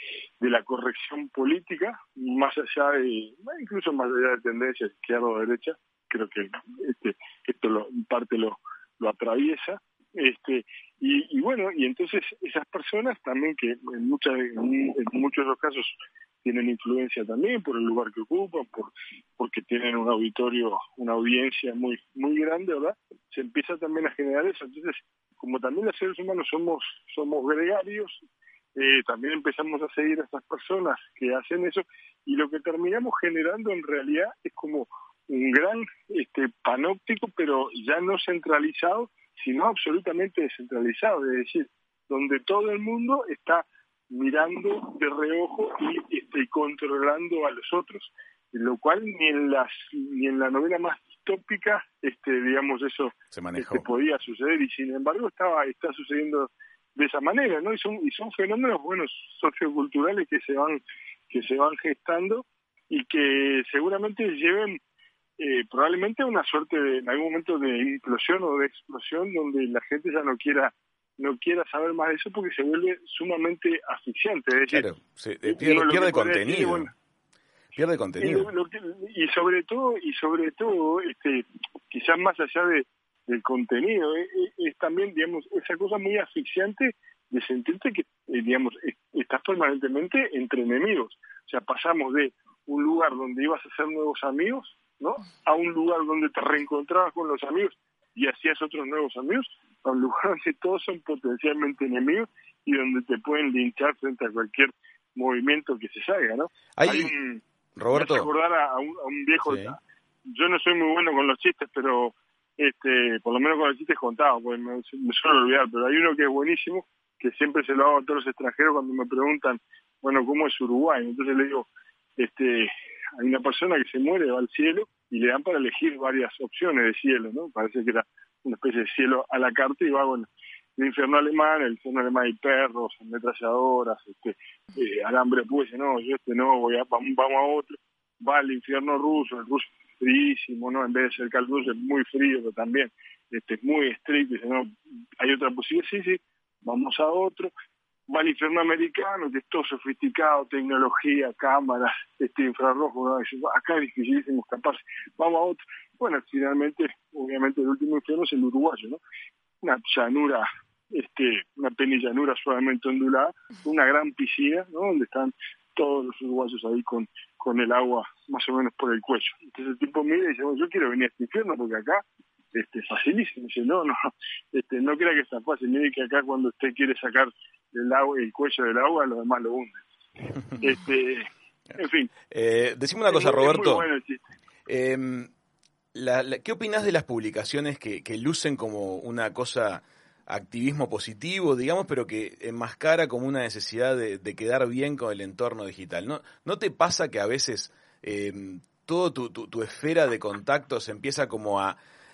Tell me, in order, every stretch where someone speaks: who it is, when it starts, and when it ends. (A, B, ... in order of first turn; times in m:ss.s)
0:00.4-0:15.9 A
0:16.4-0:28.2 A
0:28.8-1:04.8 A
0:53.3-0:53.8 B
1:05.4-1:14.9 A
1:14.7-1:16.9 B
1:15.4-1:16.9 A
1:17.7-1:18.5 B
1:18.2-1:47.4 A
1:46.8-1:47.1 B
1:47.8-1:48.3 B
1:47.9-2:27.5 A
1:49.4-1:49.8 B
2:28.1-2:39.0 A
2:39.6-2:54.0 A
2:54.5-2:59.8 A
3:00.5-3:02.1 A
3:02.3-3:03.8 B
3:03.1-3:04.2 A
3:04.7-3:05.3 B
3:05.9-3:21.8 B